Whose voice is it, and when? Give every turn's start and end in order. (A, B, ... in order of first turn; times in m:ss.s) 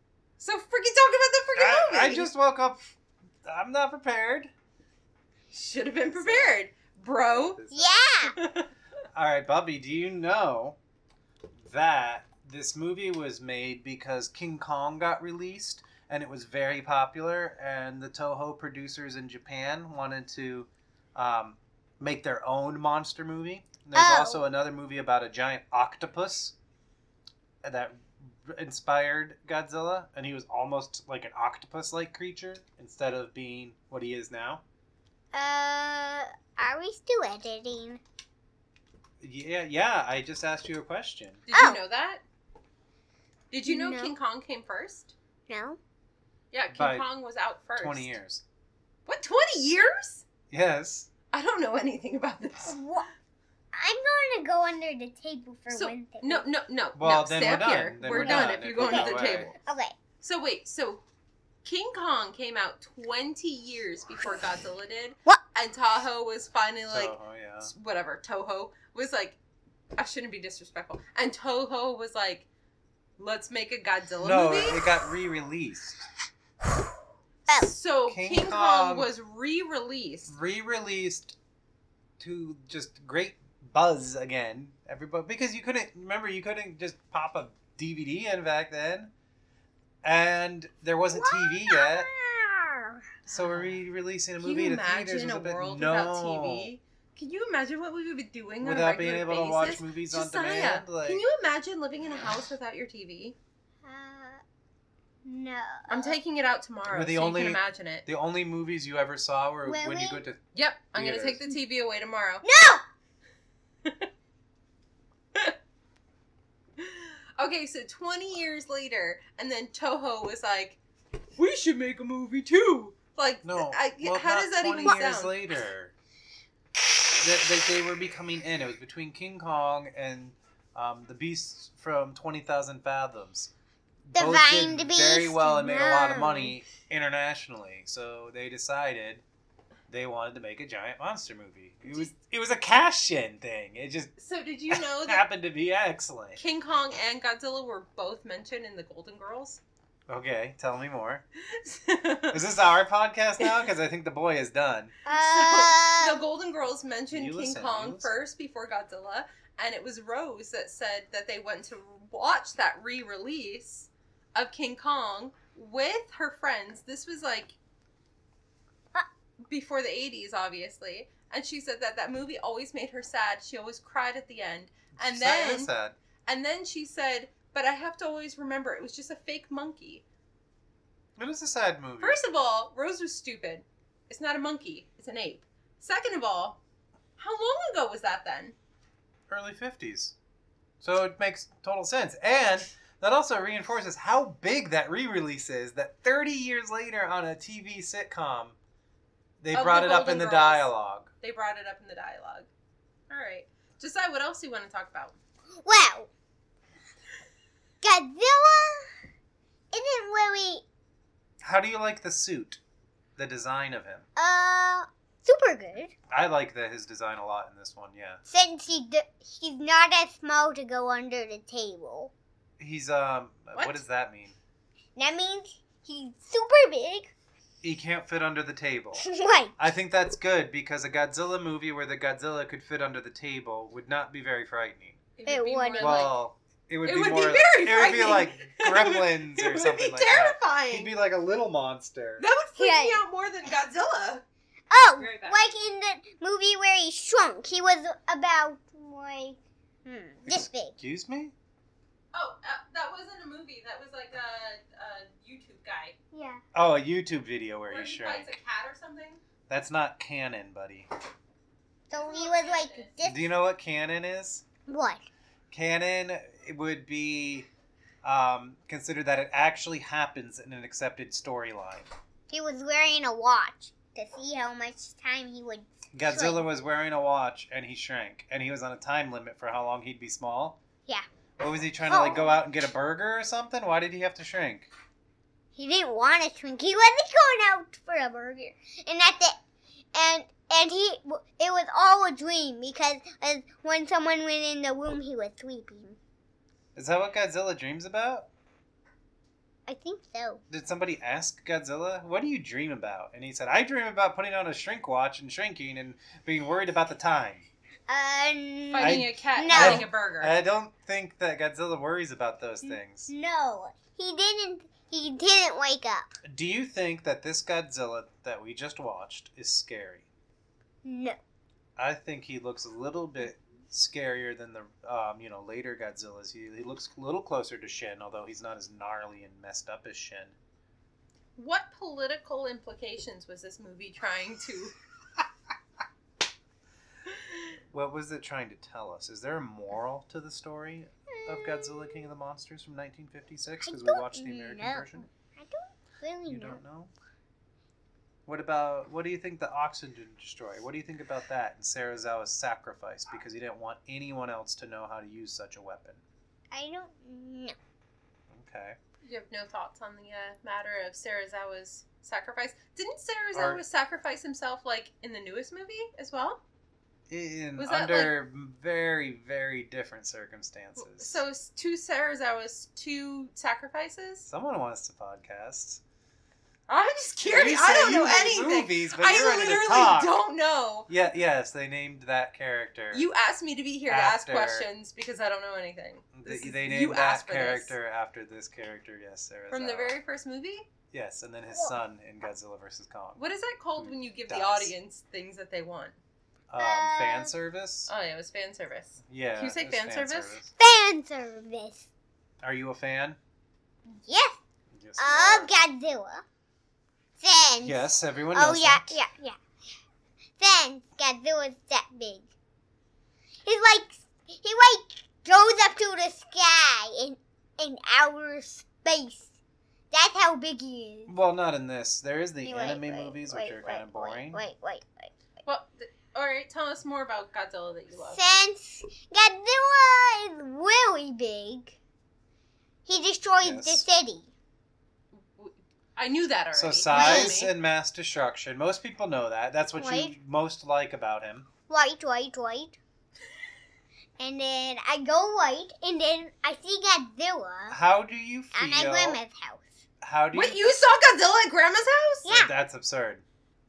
0:00.4-0:02.3 A
0:01.6-0:04.5 B
0:05.5-0:07.6 A
0:06.1-0:06.6 B
0:07.3-0:08.1 B
0:07.7-0:08.3 C
0:08.4-0:08.7 A
0:09.1-0:10.8 B
0:11.6-0:26.5 B
0:23.9-0:24.4 C
0:27.6-0:34.6 B
0:35.3-0:38.0 C
0:39.2-0:41.4 B
0:41.5-0:42.2 A
0:41.5-0:41.8 C
0:43.5-0:45.1 A
0:43.6-0:44.1 C
0:45.5-0:45.8 C
0:46.5-0:48.2 A
0:46.7-0:47.1 B
0:47.8-0:48.4 B
0:49.0-0:50.2 A
0:50.5-0:51.1 B
0:51.3-0:52.8 A
0:52.6-0:53.1 C
0:53.7-0:56.4 C
0:55.7-0:59.5 A
0:57.0-0:59.5 B
0:58.1-0:59.9 C
1:00.2-1:01.0 A
1:01.6-1:09.4 A
1:06.9-1:07.7 B
1:10.0-1:12.5 A
1:13.2-1:15.0 A
1:14.2-1:16.1 B
1:17.5-1:17.7 C
1:17.6-1:20.4 A
1:18.1-1:19.1 B
1:20.3-1:21.4 B
1:22.2-1:29.1 B
1:30.0-1:32.1 B
1:31.1-1:33.0 C
1:33.3-1:33.8 A
1:33.3-1:36.7 B
1:34.4-1:43.4 A
1:38.6-1:41.2 B
1:43.8-1:44.4 C
1:45.2-1:46.2 C
1:45.9-1:48.0 A
1:46.9-1:50.4 B
1:49.6-1:50.2 C
1:50.5-1:52.4 A
1:50.9-1:51.4 B
1:52.4-1:52.8 C
1:56.8-2:00.8 A
2:01.4-2:05.4 A
2:03.4-2:05.9 B
2:07.2-2:13.5 B
2:14.1-2:19.2 B
2:14.1-2:16.5 C
2:19.9-2:24.1 B
2:24.2-2:25.2 A
2:24.7-2:26.4 B
2:26.4-2:29.6 A
2:30.1-2:31.2 B
2:31.5-2:32.4 A
2:32.3-2:34.9 B
2:33.4-2:33.7 A
2:35.0-2:36.2 C
2:35.1-2:47.6 A
2:37.1-2:38.2 B
2:49.4-2:55.7 A
2:55.0-2:56.0 B
2:56.2-3:00.0 A
3:01.2-3:02.2 B
3:02.0-3:06.6 A
3:07.2-3:08.6 A
3:09.3-3:10.1 B
3:10.8-3:18.6 B
3:19.4-3:21.1 B
3:19.5-3:20.7 A
3:21.2-3:22.5 A
3:23.1-3:25.2 A
3:25.6-3:26.1 C
3:27.8-3:28.9 C
3:29.7-3:30.6 C
3:31.4-3:32.6 B
3:33.2-3:34.1 B
3:34.2-3:35.9 C
3:36.1-3:38.2 B
3:38.2-3:42.1 C
3:42.6-3:44.4 B
3:43.5-3:43.8 A
3:45.0-3:47.1 C
3:47.6-3:49.0 B
3:49.0-3:49.5 C
3:49.6-3:55.0 B
3:55.2-3:56.2 A
3:55.2-3:56.0 C
3:55.8-4:02.2 B
3:56.8-4:00.9 A
4:02.2-4:04.2 A
4:02.6-4:03.0 C
4:04.7-4:10.8 C
4:04.8-4:05.4 A
4:10.2-4:11.3 B
4:12.1-4:15.9 A
4:16.1-4:16.4 C
4:16.5-4:18.4 B
4:17.7-4:19.2 A
4:19.5-4:20.9 B
4:21.9-4:23.4 C
4:21.9-4:22.9 A
4:23.0-4:24.4 B
4:24.7-4:25.0 C
4:25.5-4:27.5 B
4:28.0-4:31.9 B
4:32.3-4:36.4 C
4:35.9-4:40.6 B
4:41.4-4:44.7 B
4:41.9-4:42.4 C
4:45.6-4:49.4 C
4:49.9-4:56.0 C
4:56.7-4:58.3 B
4:59.7-5:00.4 C
5:00.5-5:07.4 B
5:07.9-5:09.9 C
5:08.7-5:10.4 A
5:08.8-5:13.1 B
5:12.6-5:16.1 C
5:16.2-5:20.1 B
5:20.8-5:21.2 C
5:21.8-5:30.4 B
5:31.4-5:34.7 A
5:37.7-5:45.1 B
5:41.1-5:42.0 C
5:43.6-5:46.6 C
5:46.2-5:46.9 B
5:48.2-5:56.0 B
5:56.5-5:57.5 C
5:58.3-5:58.8 B
5:59.0-6:06.4 A
6:03.3-6:03.6 B
6:07.1-6:11.2 B
6:07.6-6:08.2 A
6:10.8-6:14.3 A
6:14.3-6:15.8 B
6:16.7-6:20.9 A
6:17.3-6:20.2 B
6:20.9-6:23.0 B
6:22.9-6:27.7 A
6:23.9-6:24.7 B
6:26.1-6:30.0 B
6:29.5-6:30.7 A
6:30.9-6:33.2 B
6:31.5-6:31.8 C
6:33.2-6:36.0 A
6:33.8-6:34.7 B
6:36.5-6:37.9 B
6:36.6-6:37.3 C
6:37.9-6:40.4 A
6:39.1-6:40.5 B
6:40.6-6:41.8 C
6:42.4-6:43.2 B
6:43.9-6:44.4 C
6:44.7-6:45.5 B
6:45.0-6:46.2 C
6:47.2-6:49.4 C
6:47.6-6:49.0 B
6:50.4-6:52.3 C
6:53.4-6:59.3 C
6:59.9-7:01.1 C
7:01.1-7:04.4 B
7:02.4-7:05.1 C
7:05.4-7:08.2 A
7:08.1-7:11.8 C
7:12.8-7:14.3 C
7:13.4-7:13.8 B
7:15.1-7:17.5 A
7:16.5-7:21.5 B
7:16.9-7:17.4 C
7:19.8-7:20.1 C
7:21.7-7:22.8 C
7:24.2-7:27.8 C
7:27.7-7:29.2 B
7:28.5-7:29.8 C
7:30.0-7:30.7 B
7:30.3-7:32.3 A
7:32.2-7:32.5 C
7:32.3-7:33.2 B